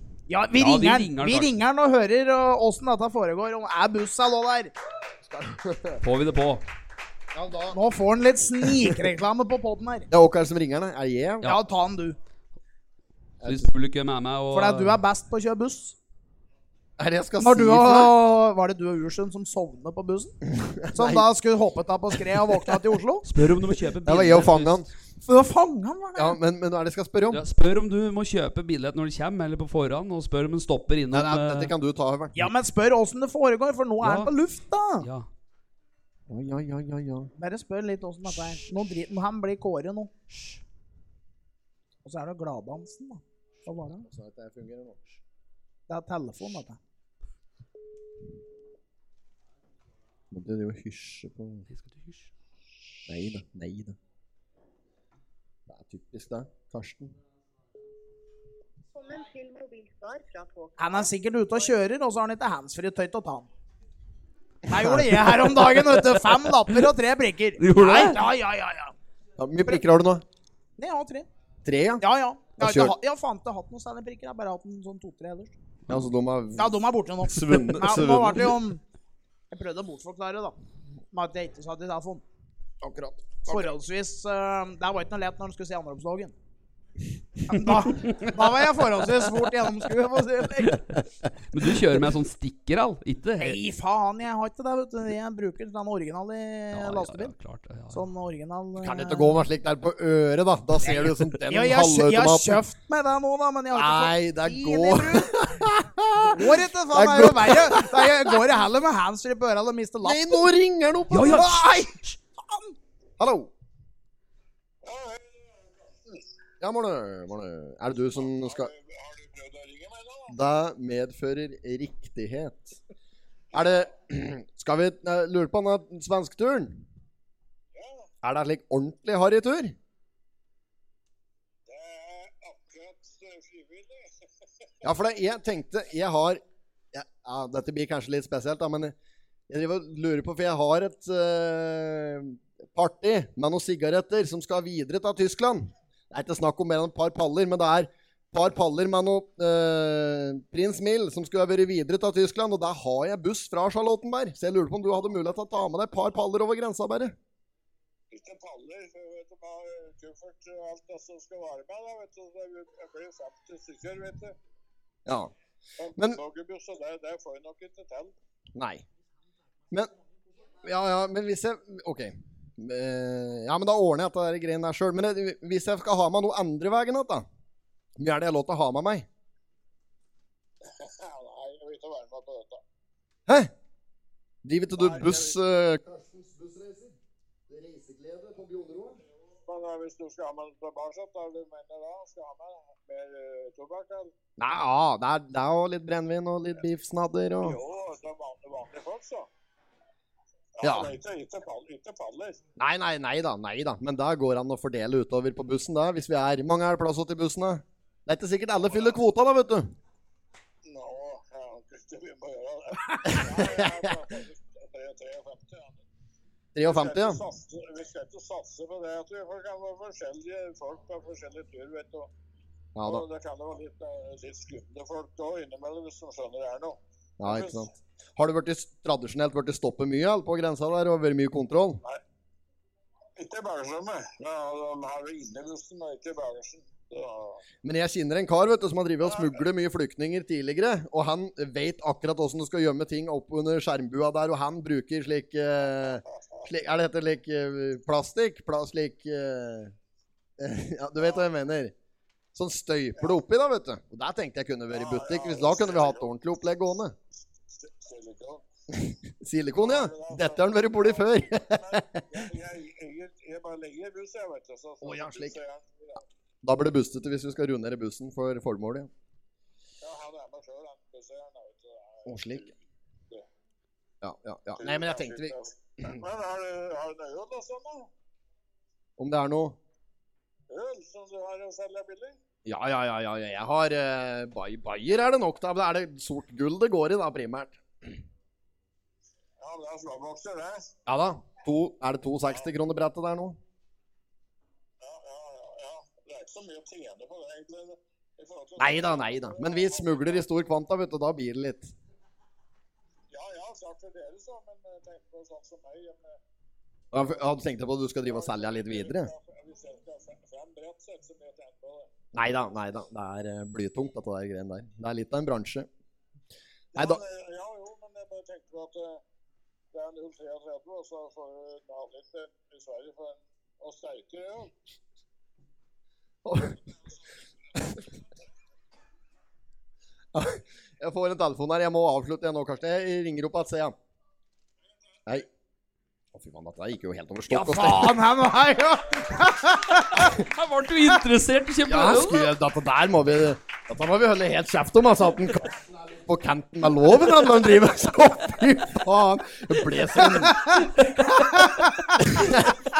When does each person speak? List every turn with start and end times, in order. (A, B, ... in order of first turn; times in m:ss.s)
0:00.3-0:04.7 A
0:00.5-0:01.6 B
0:05.3-0:06.0 C
0:06.0-0:06.6 B
0:07.3-0:07.8 C
0:07.7-0:10.1 A
0:10.1-0:11.5 C
0:11.4-0:12.2 A
0:13.4-0:13.7 C
0:13.4-0:15.0 B
0:14.5-0:16.0 A
0:17.0-0:18.2 C
0:17.4-0:20.3 A
0:20.5-0:21.3 C
0:20.9-0:23.2 A
0:23.2-0:24.8 B
0:24.0-0:24.9 C
0:25.3-0:26.4 A
0:26.2-0:27.4 C
0:27.3-0:31.7 B
0:31.1-0:32.5 C
0:32.4-0:35.0 A
0:34.0-0:34.3 B
0:35.0-0:35.3 B
0:36.3-0:37.3 C
0:37.4-0:40.1 A
0:42.0-0:44.1 A
0:44.0-0:45.0 C
0:45.9-0:46.8 A
0:50.3-0:51.7 C
0:51.7-0:52.3 B
0:53.1-0:54.0 C
0:55.7-0:57.2 C
0:58.9-1:01.1 D
1:00.8-1:03.5 A
1:04.7-1:08.9 A
1:07.6-1:08.2 B
1:09.4-1:10.2 C
1:10.8-1:11.3 A
1:11.6-1:12.0 C
1:12.0-1:15.6 A
1:12.6-1:13.0 C
1:15.9-1:18.6 C
1:16.6-1:18.8 A
1:19.5-1:20.6 A
1:21.1-1:22.2 A
1:22.8-1:23.7 C
1:23.5-1:26.3 A
1:27.5-1:30.8 A
1:31.5-1:33.6 B
1:33.4-1:37.3 A
1:36.7-1:38.1 B
1:37.9-1:39.4 A
1:38.8-1:42.6 C
1:41.5-1:45.6 A
1:43.7-1:48.3 C
1:46.2-1:50.5 A
1:50.0-1:51.9 C
1:51.1-1:52.2 B
1:51.2-1:51.8 A
1:52.4-1:52.8 A
1:53.2-1:53.5 C
1:54.8-1:56.2 E
1:56.6-1:58.7 C
1:58.2-2:00.4 E
2:00.3-2:02.8 C
2:03.5-2:06.8 C
2:03.5-2:03.8 E
2:07.7-2:08.1 E
2:08.2-2:09.8 C
2:11.7-2:14.1 E
2:14.8-2:16.4 C
2:16.9-2:19.0 C
2:19.5-2:37.2 C
2:38.1-2:44.4 E
2:45.1-2:45.3 C
2:45.8-2:48.1 E
2:48.6-2:48.8 C
2:50.6-2:57.3 C
2:58.0-2:59.1 C
3:00.6-3:02.6 E
3:04.4-3:07.0 C
3:04.7-3:05.4 E
3:07.5-3:09.0 C
3:09.3-3:14.1 E
3:14.4-3:17.6 C
3:17.4-3:19.3 E
3:20.6-3:22.4 E
3:20.6-3:20.9 C
3:22.6-3:29.8 C
3:30.6-3:35.8 E
3:33.0-3:33.9 C
3:36.6-3:37.2 C
3:36.6-3:42.1 E
3:42.8-3:43.0 C
3:42.8-3:47.7 E
3:47.2-3:51.8 C
3:53.2-3:57.4 E
3:57.6-4:09.7 C
3:59.1-3:59.4 E
4:10.4-4:11.7 C
4:11.0-4:11.3 E
4:12.4-4:17.0 C
4:14.7-4:16.1 E
4:17.5-4:18.4 E
4:18.7-4:22.1 C
4:19.6-4:26.0 E
4:24.8-4:25.4 C
4:26.4-4:28.9 C
4:29.8-4:32.5 E
4:32.1-4:32.5 C
4:34.0-4:35.8 C
4:34.6-4:37.9 E
4:39.0-4:39.6 C
4:40.5-4:42.2 E
4:42.4-4:48.0 C
4:49.4-4:50.7 E
4:50.9-4:53.4 C
4:54.8-5:00.3 E
4:58.6-5:01.7 C
5:03.1-5:06.2 E
5:06.9-5:09.1 C
5:07.0-5:07.3 E
5:08.0-5:11.9 E
5:12.1-5:15.7 C
5:16.7-5:19.0 E
5:16.8-5:17.0 C
5:19.7-5:24.5 E
5:26.2-5:26.6 C
5:27.6-5:27.8 C
5:30.1-5:33.8 C
5:36.1-5:38.0 C
5:37.3-5:40.2 A
5:40.1-5:42.3 B
5:41.6-5:51.0 C
5:50.2-5:52.3 A
5:52.0-5:52.6 C